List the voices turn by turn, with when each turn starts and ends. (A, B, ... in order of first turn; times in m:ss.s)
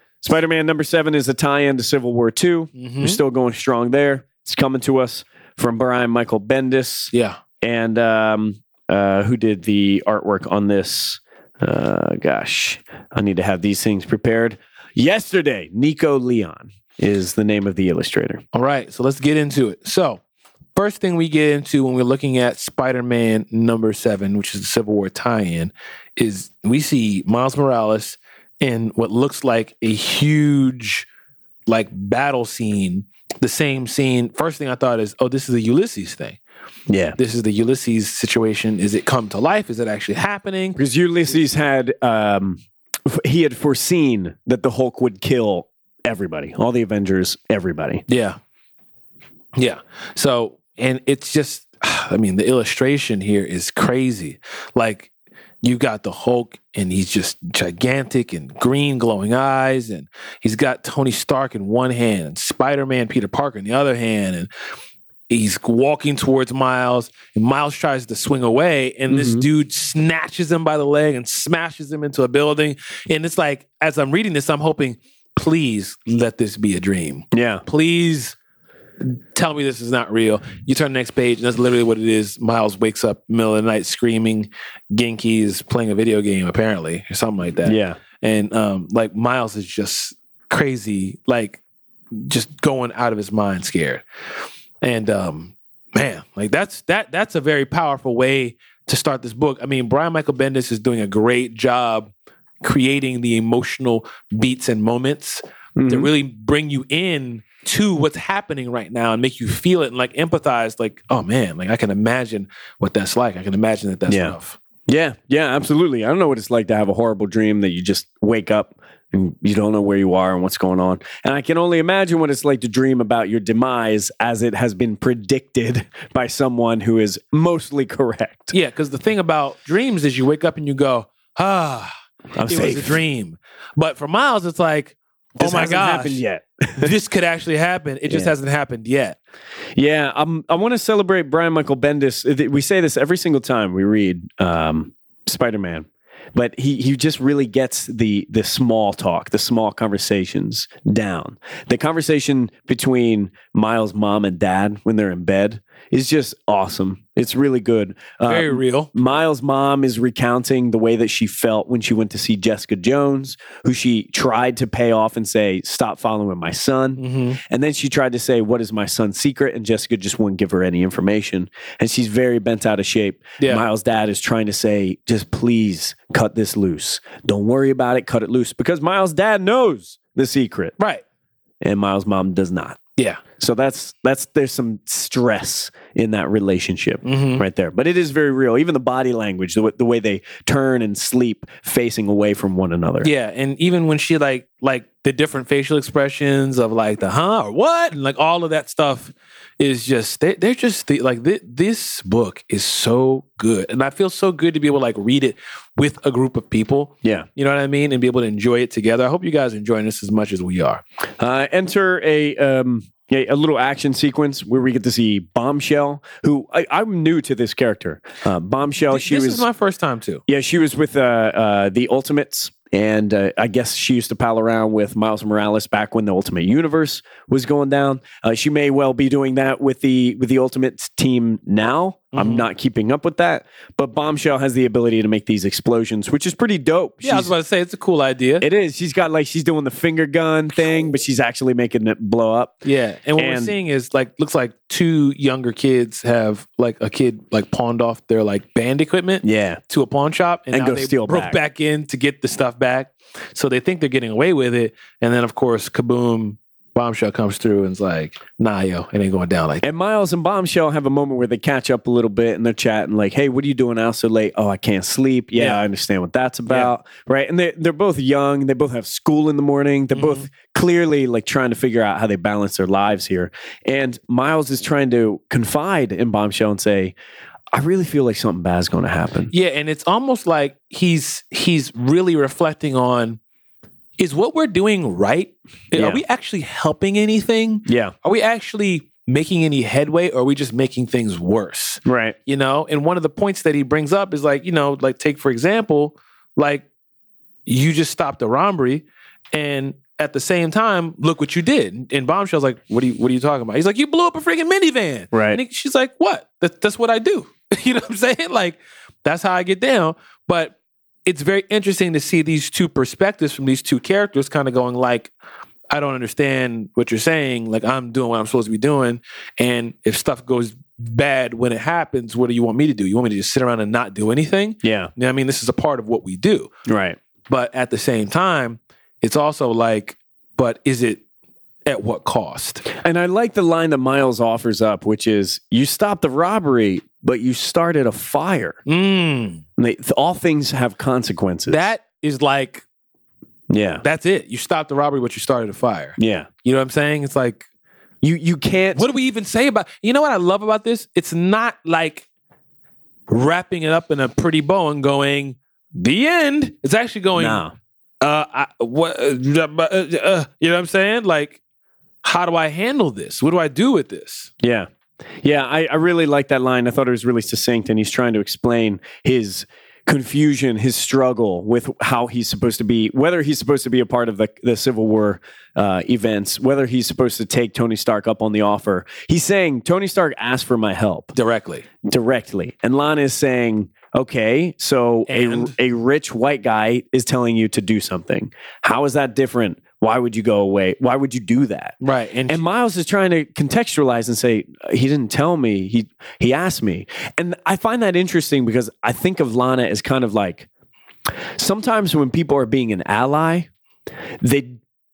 0:00.2-0:18.4 A
0:02.8-0:03.2 B
0:07.1-0:07.4 B
0:18.5-0:20.2 B
0:20.8-0:31.1 B
0:31.7-0:36.4 B
0:36.9-0:37.2 A
0:37.2-0:40.8 B
0:40.8-0:48.0 A
0:48.1-0:48.4 B
0:49.6-0:55.1 B
0:55.6-1:04.5 B
1:05.3-1:18.4 B
1:09.1-1:09.5 A
1:17.3-1:17.6 A
1:19.0-1:31.6 B
1:27.6-1:28.0 A
1:32.2-1:34.0 B
1:34.8-1:42.1 B
1:42.6-1:54.6 B
1:45.8-1:46.1 A
1:54.1-1:54.4 A
1:54.9-2:08.5 A
2:08.5-2:11.9 B
2:12.3-2:13.0 A
2:12.4-2:16.2 B
2:15.4-2:16.9 A
2:16.8-2:19.2 B
2:18.1-2:18.3 A
2:19.8-3:00.8 A
2:38.2-2:38.9 B
2:47.0-2:47.4 B
2:53.4-2:53.6 B
3:01.6-3:02.8 A
3:03.4-3:13.1 A
3:07.0-3:07.4 B
3:13.0-3:30.8 B
3:31.2-3:39.4 A
3:38.9-3:40.2 B
3:40.3-3:57.3 A
3:52.1-3:52.4 B
3:57.0-3:58.4 B
3:58.4-4:02.6 A
4:02.6-4:19.6 B
4:03.2-4:03.6 A
4:09.2-4:09.6 A
4:10.5-4:11.4 A
4:19.6-4:36.9 A
4:25.4-4:25.6 B
4:29.9-4:30.3 B
4:37.5-4:39.3 A
4:39.3-4:43.2 B
4:44.0-4:56.6 B
4:45.8-4:46.0 A
4:47.7-4:47.9 A
4:51.8-4:52.2 A
4:57.5-5:10.6 B
5:05.1-5:05.4 A
5:11.1-5:15.1 B
5:15.7-5:26.5 B
5:24.6-5:24.9 A
5:26.7-5:27.0 A
5:27.3-5:31.0 B
5:31.7-5:32.6 B
5:32.7-5:38.6 A
5:38.7-5:39.4 B
5:39.6-5:41.7 A
5:41.5-5:42.6 B
5:43.5-5:43.8 A
5:43.8-5:47.5 B
5:46.0-5:46.3 A
5:48.0-5:48.9 A
5:48.7-5:52.1 B
5:53.1-5:57.4 B
5:57.2-5:57.5 A
5:58.0-6:01.4 B
6:02.0-6:04.3 B
6:04.4-6:04.7 A
6:05.2-6:21.1 A
6:21.2-6:21.6 B
6:21.8-6:31.8 A
6:25.1-6:25.6 B
6:31.8-6:32.4 B
6:32.3-6:40.5 A
6:41.4-6:43.5 A
6:44.2-6:44.6 A